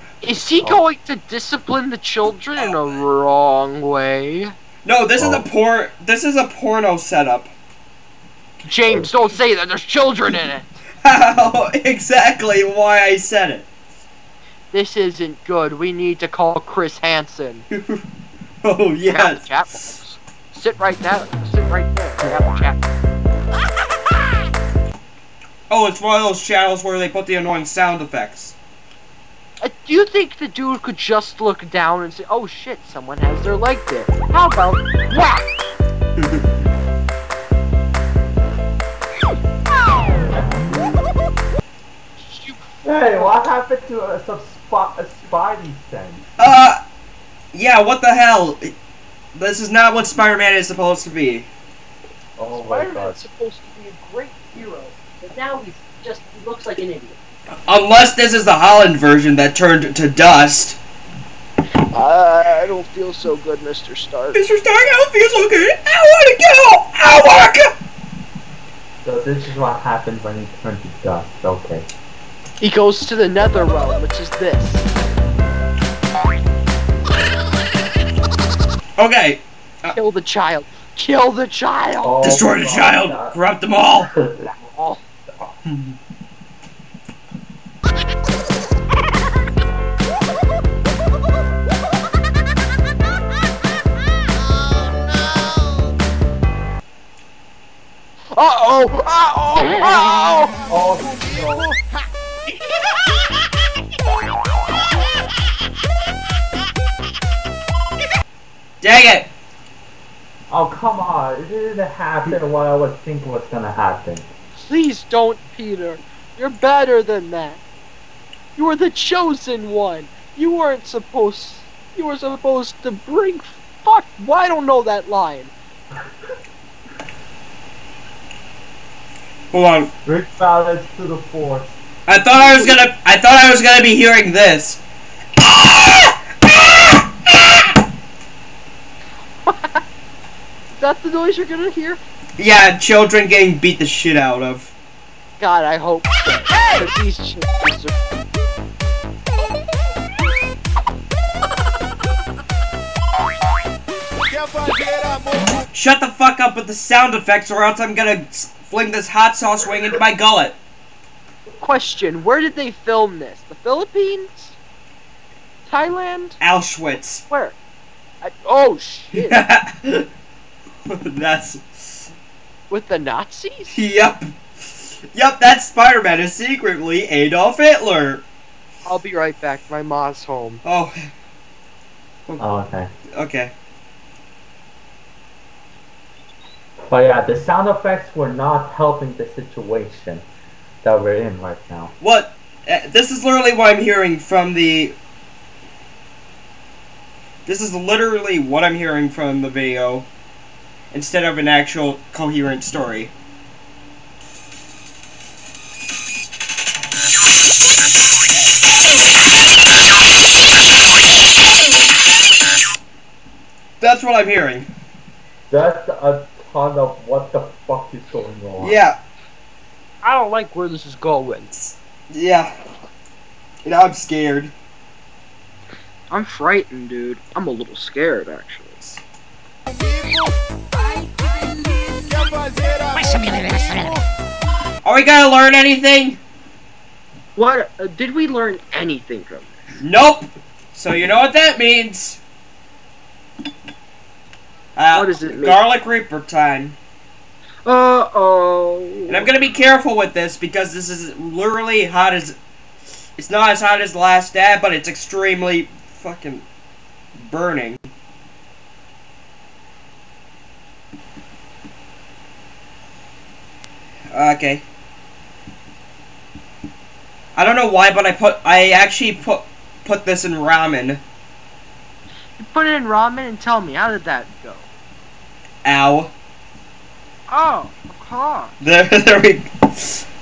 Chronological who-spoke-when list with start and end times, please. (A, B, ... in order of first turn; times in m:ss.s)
0:00.2-0:04.5 A
0:02.6-0:03.0 B
0:04.8-0:07.5 B
0:05.2-0:05.4 C
0:08.6-0:10.8 A
0:11.0-0:13.7 B
0:11.4-0:11.6 C
0:14.7-0:17.7 A
0:17.7-0:18.0 B
0:18.6-0:19.4 B
0:19.1-0:22.8 A
0:25.7-0:28.6 B
0:29.6-0:35.5 A
0:40.3-0:40.7 C
0:42.2-0:42.8 A
0:42.8-0:46.3 C
0:46.4-0:46.8 B
0:47.5-0:48.7 B
0:49.4-0:51.5 B
0:52.4-0:53.2 C
0:52.5-0:57.2 A
0:57.7-1:00.8 B
1:01.9-1:04.4 A
1:04.3-1:07.7 B
1:09.0-1:11.9 C
1:12.6-1:14.8 A
1:19.0-1:19.9 B
1:19.9-1:22.2 A
1:22.0-1:23.3 C
1:22.2-1:24.1 B
1:24.1-1:24.6 C
1:24.6-1:25.0 A
1:38.3-1:40.7 A
1:40.7-1:41.7 C
1:48.8-1:49.3 B
1:50.5-1:54.3 C
1:54.5-1:57.6 A
1:58.6-2:05.5 A
2:09.5-2:09.9 B
2:10.0-2:11.8 C
2:12.1-2:14.8 B
2:15.4-2:17.5 B
2:19.4-2:19.8 A
2:20.7-2:22.0 A
2:22.4-2:24.7 B
2:25.4-2:28.0 A
2:35.7-2:40.6 B
2:41.6-2:44.6 A
2:45.7-2:46.4 A
2:46.4-2:47.2 B
2:47.3-2:47.6 A
2:48.2-2:49.4 A
2:49.2-2:50.1 B
2:50.9-2:52.1 B
2:52.7-2:53.8 A
2:53.7-2:58.2 B
2:58.9-3:00.6 A
3:00.6-3:01.1 B
3:02.4-3:02.9 C
3:03.1-3:03.5 B
3:06.8-3:10.2 C
3:10.8-3:11.9 C
3:12.0-3:15.0 B
3:17.5-3:20.1 B
3:20.9-3:23.1 B
3:33.8-3:34.7 B
3:35.5-3:38.8 C
3:38.6-3:39.0 B
3:40.0-3:41.5 A
3:41.6-3:42.5 B
3:43.6-3:44.5 B
3:46.1-3:48.9 A
3:54.8-3:56.2 B
3:57.4-3:59.8 A
3:59.8-4:02.2 B
4:04.8-4:06.8 B
4:04.9-4:05.6 A
4:07.6-4:09.3 A
4:09.1-4:12.4 B
4:13.2-4:16.5 B
4:17.2-4:17.8 B
4:24.1-4:24.6 B
4:27.4-4:31.0 B
4:32.4-4:34.7 A
4:35.6-4:36.1 B
4:37.3-4:38.6 A
4:38.6-4:40.0 B